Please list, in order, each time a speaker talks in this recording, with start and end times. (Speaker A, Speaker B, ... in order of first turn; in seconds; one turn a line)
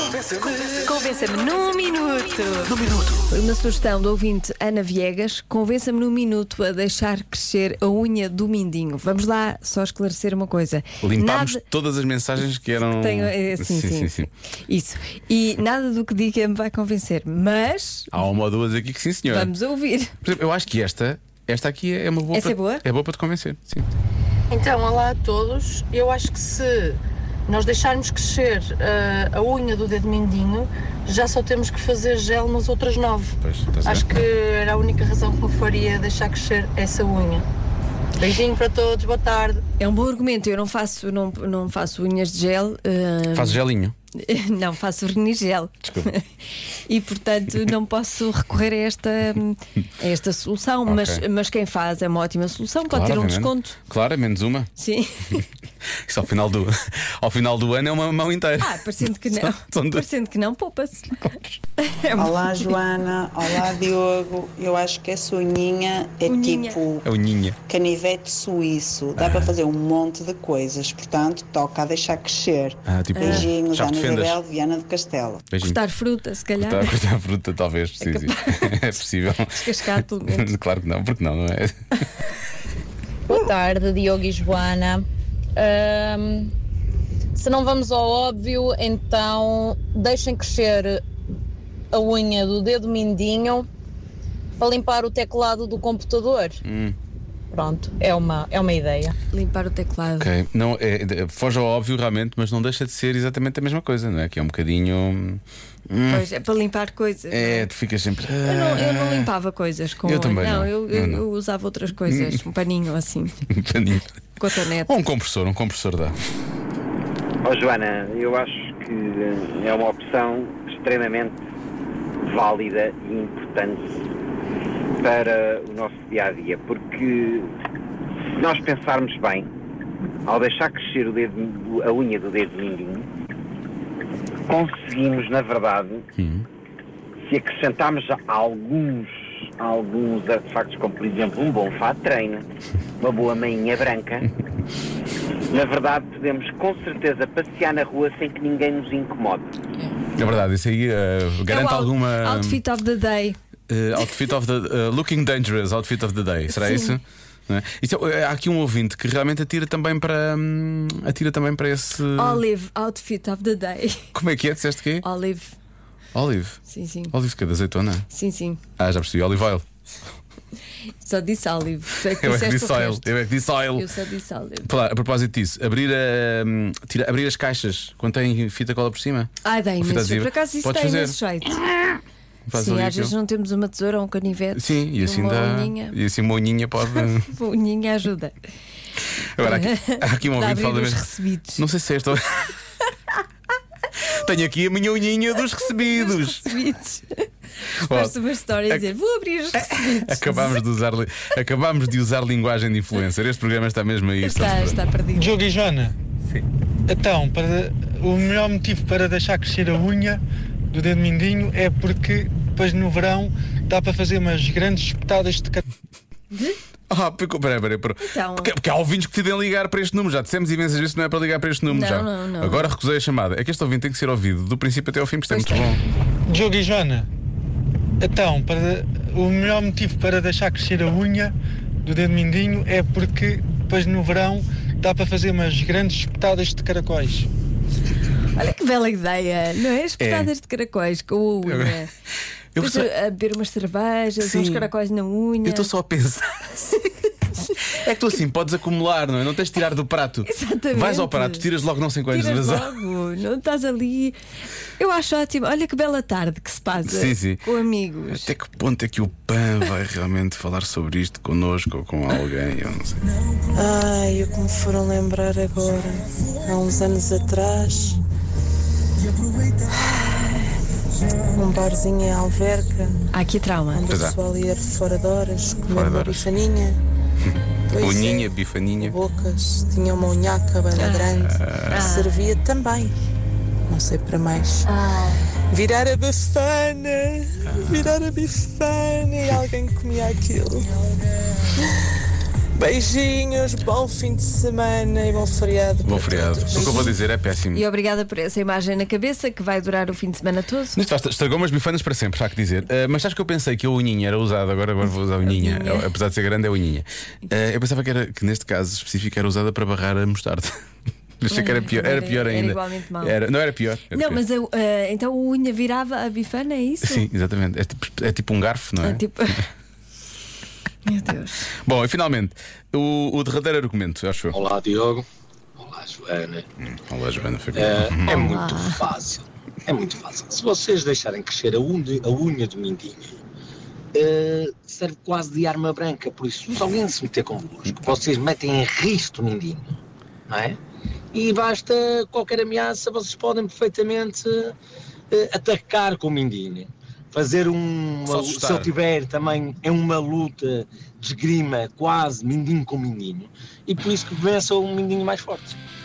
Speaker A: 0.3-11.6
Speaker B: 11.0-14.3
Speaker A: 12.8-14.1
Speaker A: 14.7-18.1
Speaker B: 18.1-19.5
Speaker A: 19.3-20.1
Speaker B: 20.2-23.9
Speaker A: 22.3-22.8
Speaker C: 24.5-37.5
Speaker B: 33.4-34.1
Speaker C: 38.2-39.6
Speaker A: 39.8-43.6
Speaker B: 43.3-43.9
Speaker A: 44.1-46.2
Speaker B: 45.8-46.1
Speaker A: 46.9-53.8
Speaker B: 50.9-51.2
Speaker B: 52.9-54.7
Speaker A: 54.8-55.5
Speaker B: 56.1-60.0
Speaker A: 58.6-62.7
Speaker B: 61.1-61.6
Speaker D: 62.1-67.0
Speaker A: 66.3-66.8
Speaker B: 67.0-67.6
Speaker D: 67.7-75.4
Speaker B: 69.2-69.6
Speaker B: 72.9-74.4
Speaker A: 73.2-73.5
Speaker B: 75.5-75.8
Speaker A: 75.6-77.0
Speaker B: 76.6-81.8
Speaker A: 78.0-78.8
Speaker A: 79.5-80.5
Speaker E: 83.3-85.0
Speaker E: 85.6-86.5
Speaker E: 87.4-90.9
Speaker E: 91.9-93.6
Speaker E: 94.6-96.6
Speaker B: 96.6-97.0
Speaker E: 97.5-99.1
Speaker A: 99.3-100.3
Speaker B: 100.2-106.3
Speaker A: 106.1-107.7
Speaker B: 107.3-109.3
Speaker A: 108.4-113.4
Speaker B: 110.0-111.2
Speaker B: 112.0-112.4
Speaker B: 113.5-114.1
Speaker A: 114.3-115.0
Speaker B: 114.8-116.2
Speaker F: 117.4-121.4
Speaker F: 122.2-123.9
Speaker F: 125.0-127.5
Speaker F: 128.3-129.5
Speaker F: 130.3-133.1
Speaker F: 134.5-136.0
Speaker B: 136.2-136.4
Speaker F: 137.3-142.4
Speaker F: 143.0-144.3
Speaker F: 145.5-149.5
Speaker B: 150.2-152.6
Speaker A: 151.5-153.4
Speaker B: 153.7-162.4
Speaker A: 156.5-157.0
Speaker A: 162.2-164.1
Speaker B: 164.1-165.0
Speaker A: 165.0-165.6
Speaker B: 166.1-166.6
Speaker A: 166.7-167.1
Speaker B: 167.1-168.1
Speaker A: 168.1-168.6
Speaker B: 168.8-169.6
Speaker A: 171.0-173.1
Speaker B: 172.1-173.9
Speaker A: 173.8-174.7
Speaker B: 174.6-181.2
Speaker A: 179.4-181.6
Speaker B: 182.5-183.1
Speaker A: 182.5-185.9
Speaker B: 184.5-187.3
Speaker A: 187.0-188.3
Speaker B: 189.3-191.0
Speaker A: 189.4-191.6
Speaker B: 191.6-192.6
Speaker B: 194.0-196.5
Speaker A: 195.7-200.6
Speaker B: 197.8-198.2
Speaker B: 199.5-204.8
Speaker A: 204.2-205.4
Speaker G: 205.1-205.9
Speaker G: 206.9-210.2
Speaker G: 210.7-215.6
Speaker A: 216.3-216.6
Speaker B: 216.9-225.8
Speaker A: 218.0-218.5
Speaker A: 221.7-222.7
Speaker A: 225.3-225.7
Speaker G: 226.3-227.1
Speaker G: 228.0-231.3
Speaker G: 231.8-237.3
Speaker A: 238.3-241.9
Speaker B: 240.0-240.3
Speaker B: 241.4-241.8
Speaker B: 242.5-242.9
Speaker A: 242.6-245.7
Speaker B: 244.2-244.7
Speaker B: 245.4-246.6
Speaker B: 247.7-252.8
Speaker A: 250.2-251.5
Speaker A: 252.1-254.2
Speaker A: 254.8-258.3
Speaker B: 256.8-257.4
Speaker B: 258.1-263.0
Speaker H: 263.5-268.0
Speaker H: 269.8-270.1
Speaker H: 271.3-273.0
Speaker A: 273.1-273.8
Speaker H: 273.7-276.8
Speaker B: 273.9-274.1
Speaker B: 275.7-276.3
Speaker H: 277.7-278.2
Speaker B: 277.8-278.9
Speaker H: 278.8-282.9
Speaker A: 280.7-282.2
Speaker B: 281.2-281.8
Speaker H: 283.7-284.7
Speaker A: 284.7-285.1
Speaker H: 285.5-290.7
Speaker B: 287.4-288.0
Speaker H: 292.6-296.9
Speaker B: 295.8-297.6
Speaker A: 296.5-296.9
Speaker A: 297.5-300.8
Speaker B: 300.7-310.5
Speaker A: 305.2-305.9
Speaker B: 311.2-314.2
Speaker A: 311.3-313.2
Speaker A: 313.9-317.1
Speaker B: 316.8-319.0
Speaker A: 318.8-319.4
Speaker A: 320.8-321.5
Speaker B: 321.6-324.4
Speaker I: 324.3-325.0
Speaker I: 325.6-326.4
Speaker B: 326.6-328.3
Speaker I: 327.5-333.1
Speaker A: 328.1-328.8
Speaker I: 333.9-339.8
Speaker I: 340.3-340.6
Speaker I: 341.1-344.5
Speaker I: 345.1-355.6
Speaker B: 348.1-348.7